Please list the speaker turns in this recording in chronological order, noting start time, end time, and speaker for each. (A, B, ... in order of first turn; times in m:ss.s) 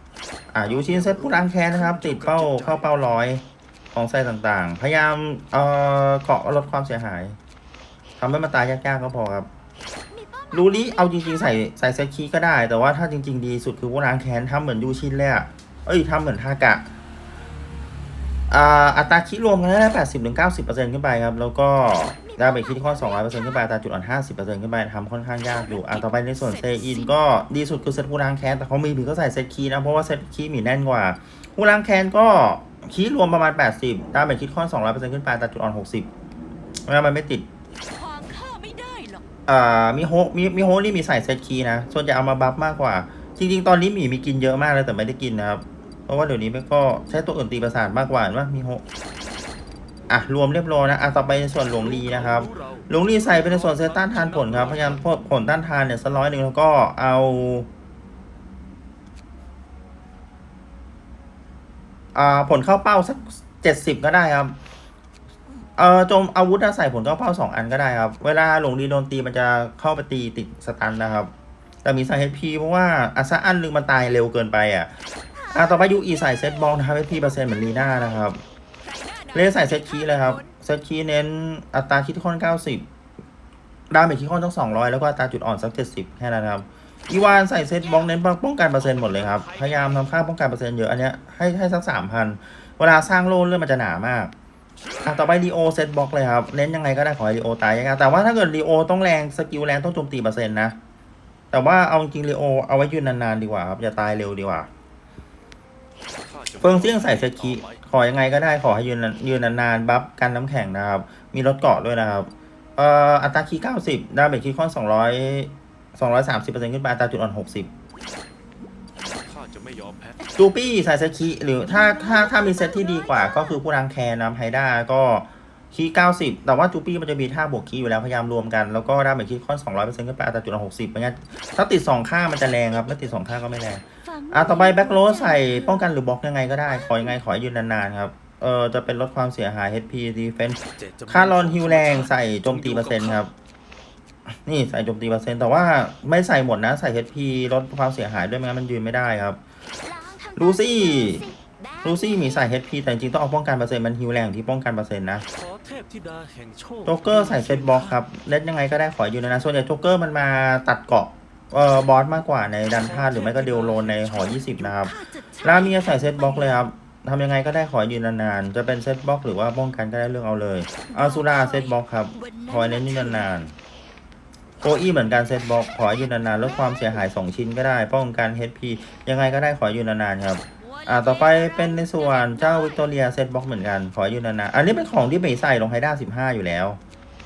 0:00.5-0:03.4 A
0:00.7-0:02.9 B
0:03.9-0:07.4 A
0:08.2-0:09.5 A
0:10.1-0:11.6 C
0:10.5-0:16.9 A
0:18.5-0:36.1 A
0:22.2-0:23.7 C
0:25.5-0:27.1 C
0:36.9-0:37.5 A
0:37.9-0:39.2 C
0:39.5-0:48.8 A
0:50.1-0:57.7 A
0:51.8-0:55.0 B
1:02.1-1:04.6 A
1:05.8-1:11.3 A
1:11.8-1:14.9 A
1:15.4-1:18.1 C
1:15.5-1:18.4 A
1:18.8-1:20.5 C
1:19.3-1:22.9 A
1:23.9-1:34.3 A
1:27.4-1:28.2 C
1:28.8-1:30.1 B
1:35.0-1:40.8 A
1:41.5-1:44.7 A
1:46.2-1:47.8 B
1:46.6-1:57.7 A
1:59.3-2:00.2 B
2:00.4-2:23.3 A
2:01.6-2:03.6 C
2:14.0-2:15.8 C
2:16.7-2:17.2 C
2:20.8-2:23.2 B
2:24.4-2:29.4 A
2:29.8-2:32.5 C
2:30.4-2:31.2 A
2:31.8-2:35.2 A
2:35.3-2:38.0 B
2:36.9-2:53.5 A
2:42.8-2:44.8 B
2:44.5-2:46.6 C
2:50.9-2:53.3 C
2:54.6-3:06.8 A
2:55.8-2:57.0 C
3:00.6-3:02.9 C